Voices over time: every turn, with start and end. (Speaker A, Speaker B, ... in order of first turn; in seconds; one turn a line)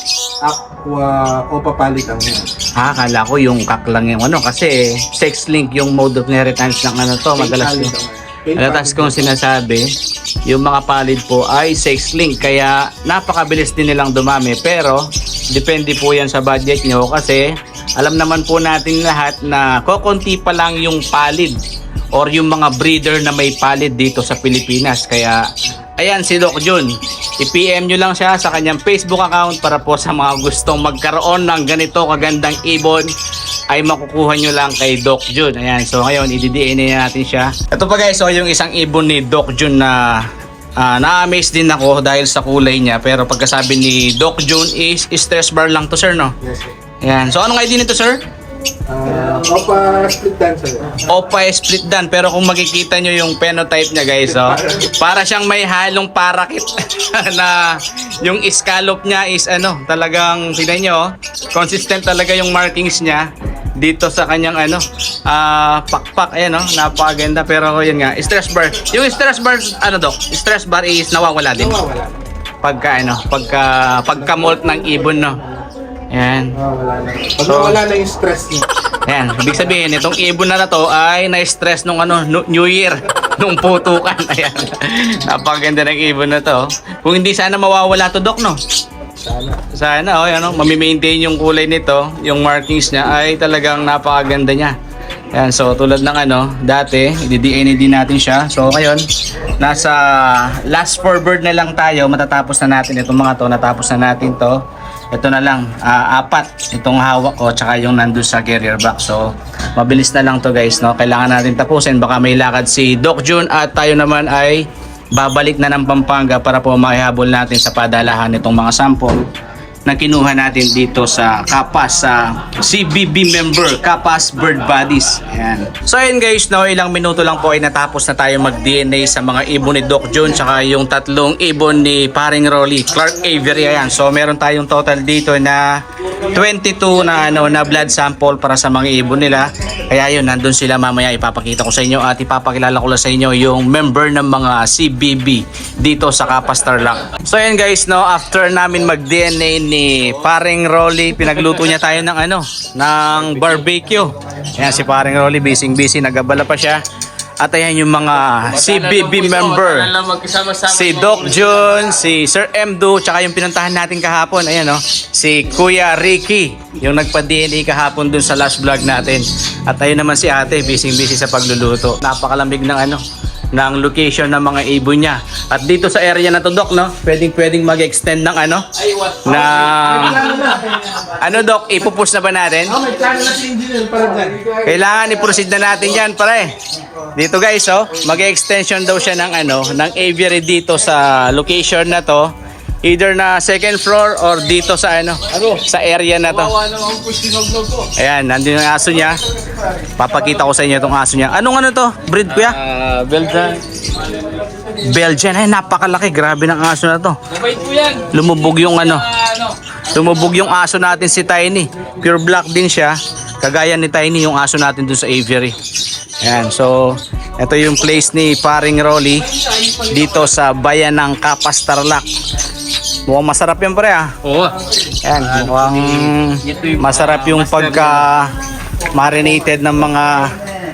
Speaker A: 0.4-2.5
Speaker B: 2.8-7.9
Speaker A: 7.4-9.3
Speaker B: 8.6-9.9
Speaker B: 10.5-21.6
Speaker B: 22.1-33.1
Speaker B: 33.7-40.3
Speaker B: 40.8-46.3
Speaker A: 46.4-46.7
Speaker B: 47.0-48.2
Speaker A: 48.9-51.0
Speaker B: 51.0-71.8
Speaker A: 71.5-72.2
Speaker B: 72.6-75.4
Speaker B: 76.1-76.6
Speaker A: 76.5-78.7
Speaker B: 77.5-77.8
Speaker B: 79.1-88.6
Speaker A: 89.2-89.6
Speaker B: 89.7-94.8
Speaker B: 95.3-99.0
Speaker B: 99.6-119.3
Speaker B: 119.9-156.8
Speaker B: 157.4-159.9
Speaker C: 158.5-161.6
Speaker B: 160.6-173.0
Speaker B: 173.5-178.7
Speaker B: 179.2-182.8
Speaker A: 180.0-180.6
Speaker A: 182.7-184.6
Speaker B: 184.6-186.6
Speaker B: 187.2-192.3
Speaker B: 192.8-196.6
Speaker C: 195.3-195.6
Speaker C: 196.3-197.9
Speaker B: 198.0-199.2
Speaker B: 200.0-202.6
Speaker C: 202.3-204.5
Speaker B: 204.7-207.2
Speaker C: 207.3-208.1
Speaker B: 208.1-215.6
Speaker C: 209.2-209.5
Speaker B: 216.2-222.1
Speaker B: 223.1-224.2
Speaker C: 224.2-224.6
Speaker B: 225.0-228.3
Speaker C: 225.2-228.0
Speaker B: 228.9-230.3